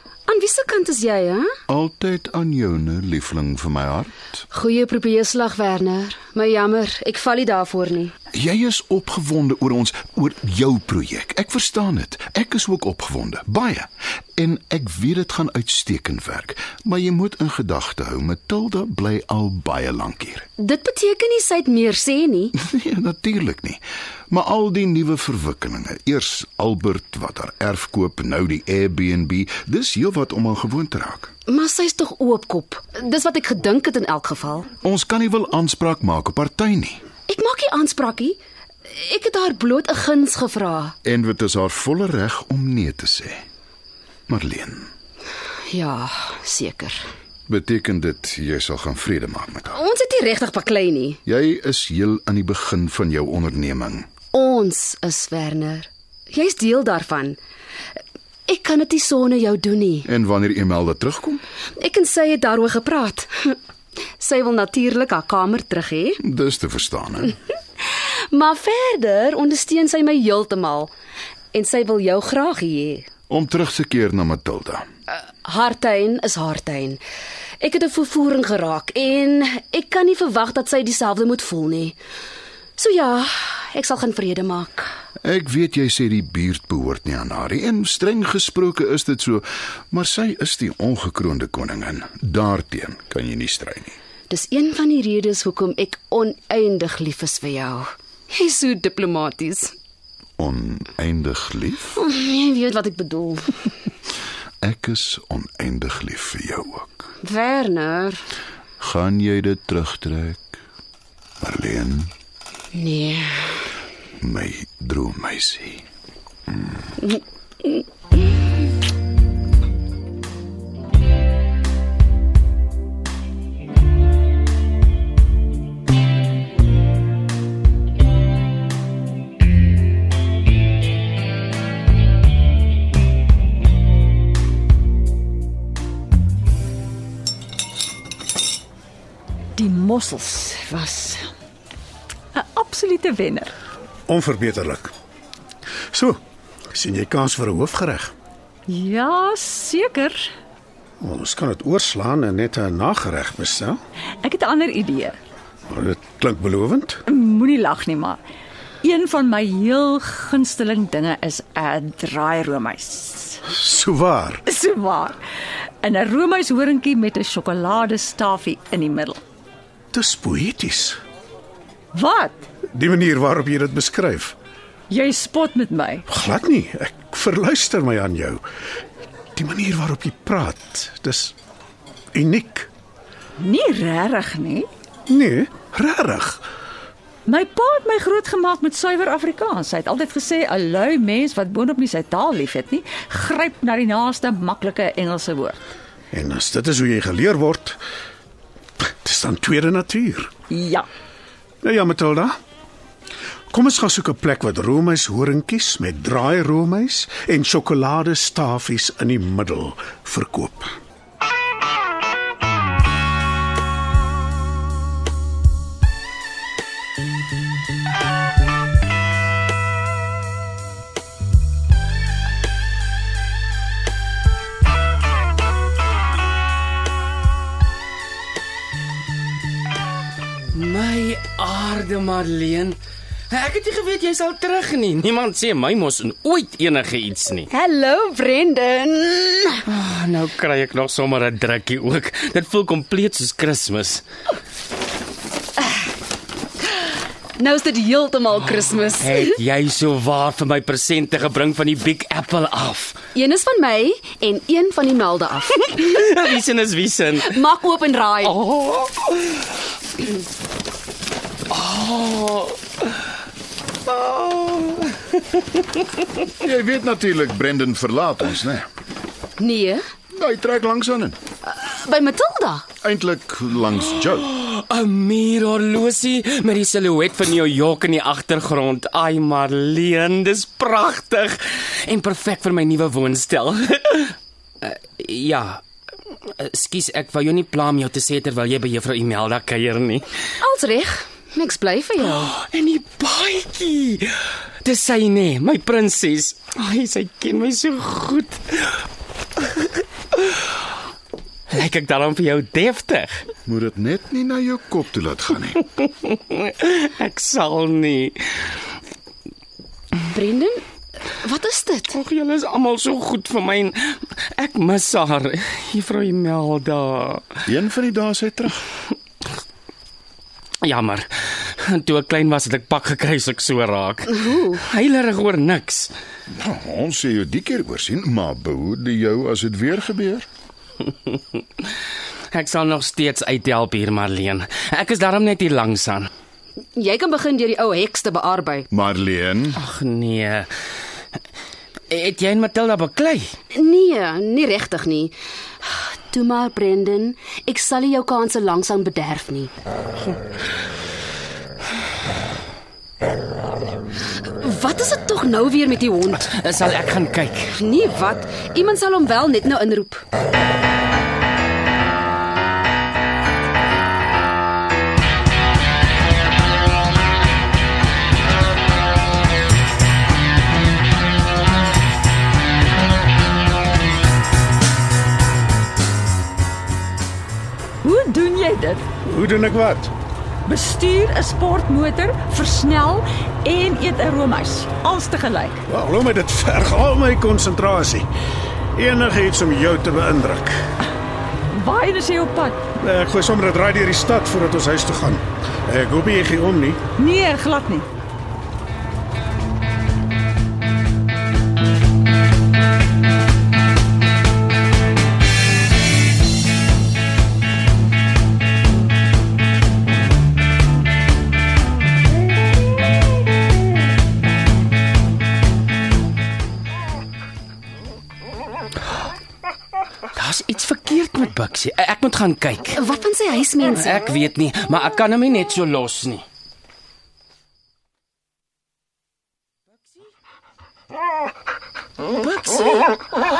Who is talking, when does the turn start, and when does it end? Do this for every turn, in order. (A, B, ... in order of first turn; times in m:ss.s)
0:00.3-0:01.5 A
0:01.7-0:04.4 B
0:04.5-0:08.2 A
0:08.3-0:20.5 B
0:20.6-0:22.5 A
0:22.5-0:31.3 B
0:31.5-0:34.7 A
0:34.8-0:37.0 B
0:37.3-0:41.0 A
0:41.0-0:43.4 B
0:44.3-0:44.9 B
0:45.7-0:47.0 A
0:47.5-0:49.8 B
0:49.7-0:51.2 A
0:51.2-0:54.1 B
0:54.3-0:57.4 A
0:58.5-1:00.1 A
1:00.0-1:01.4 B
1:01.8-1:03.6 A
1:04.2-1:06.2 A
1:06.2-1:07.4 B
1:07.8-1:10.9 A
1:11.5-1:13.1 A
1:13.3-1:14.9 B
1:15.1-1:17.0 A
1:17.6-1:22.0 A
1:22.8-1:24.9 A
1:25.2-1:34.0 B
1:34.3-1:39.8 A
1:40.4-1:41.9 B
1:42.0-1:43.7 A
1:44.6-1:47.1 B
1:47.2-1:48.2 A
1:48.8-1:50.6 B
1:51.4-1:52.1 B
1:52.7-1:53.7 A
1:54.2-1:55.8 B
2:19.6-2:21.3 C
2:22.3-2:23.5 C
2:24.1-2:24.9 D
2:25.9-2:26.2 D
2:26.7-2:28.1 D
2:28.7-2:30.3 C
2:31.0-2:33.8 D
2:34.2-2:35.2 C
2:35.7-2:37.0 D
2:37.1-2:38.2 C
2:38.8-2:43.4 C
2:43.5-2:44.4 D
2:44.5-2:45.2 C
2:45.8-2:49.2 C
2:49.9-2:51.0 D
2:51.9-2:52.4 C
2:52.7-2:54.4 D
2:54.9-2:56.0 C
2:56.1-2:58.5 D
2:59.4-3:01.4 D
3:02.1-3:02.7 D
3:03.4-3:04.7 C
3:05.1-3:06.5 D
3:07.3-3:15.6 C
3:16.1-3:17.8 D
3:18.8-3:20.3 D
3:20.5-3:20.9 C
3:21.6-3:22.4 D
3:23.5-3:30.8 D
3:50.5-3:52.8 E
3:53.3-3:57.5 E
3:57.5-3:59.6 A
3:59.6-4:04.0 E
4:07.4-4:09.4 A
4:09.0-4:13.0 E
4:13.2-4:15.7 A
4:15.6-4:17.4 E
4:17.3-4:18.4 A
4:18.2-4:19.4 E
4:21.5-4:22.6 E
4:23.9-4:25.0 E
4:26.4-4:28.7 B
4:29.4-4:29.8 A
4:30.1-4:31.2 B
4:31.4-4:32.7 A
4:32.8-4:34.3 B
4:34.0-4:45.6 E
4:46.4-4:50.1 E
4:50.4-4:52.3 A
4:52.0-4:58.7 E
5:01.5-5:03.3 E
5:03.5-5:05.6 B
5:05.8-5:08.2 E
5:10.0-5:10.6 A
5:11.2-5:12.0 A
5:11.9-5:17.4 E
5:17.5-5:18.6 B
5:20.6-5:25.9 E
5:26.3-5:30.3 B
5:32.3-5:36.1 E
5:36.8-5:38.7 A
5:38.7-5:39.6 B
5:39.6-5:40.5 E
5:41.9-5:43.3 E
5:43.5-5:49.5 A
5:54.2-5:56.3 A
5:56.2-5:57.6 E
5:57.5-6:00.0 A
6:17.8-6:18.8 C
6:19.0-6:19.9 D
6:20.4-6:25.6 C
6:25.7-6:28.1 D
6:28.7-6:30.6 D
6:31.5-6:32.6 C
6:32.8-6:36.8 D
6:37.0-6:37.9 C
7:00.1-7:02.8 E
7:02.8-7:04.0 A
7:03.7-7:06.2 E
7:12.2-7:12.9 E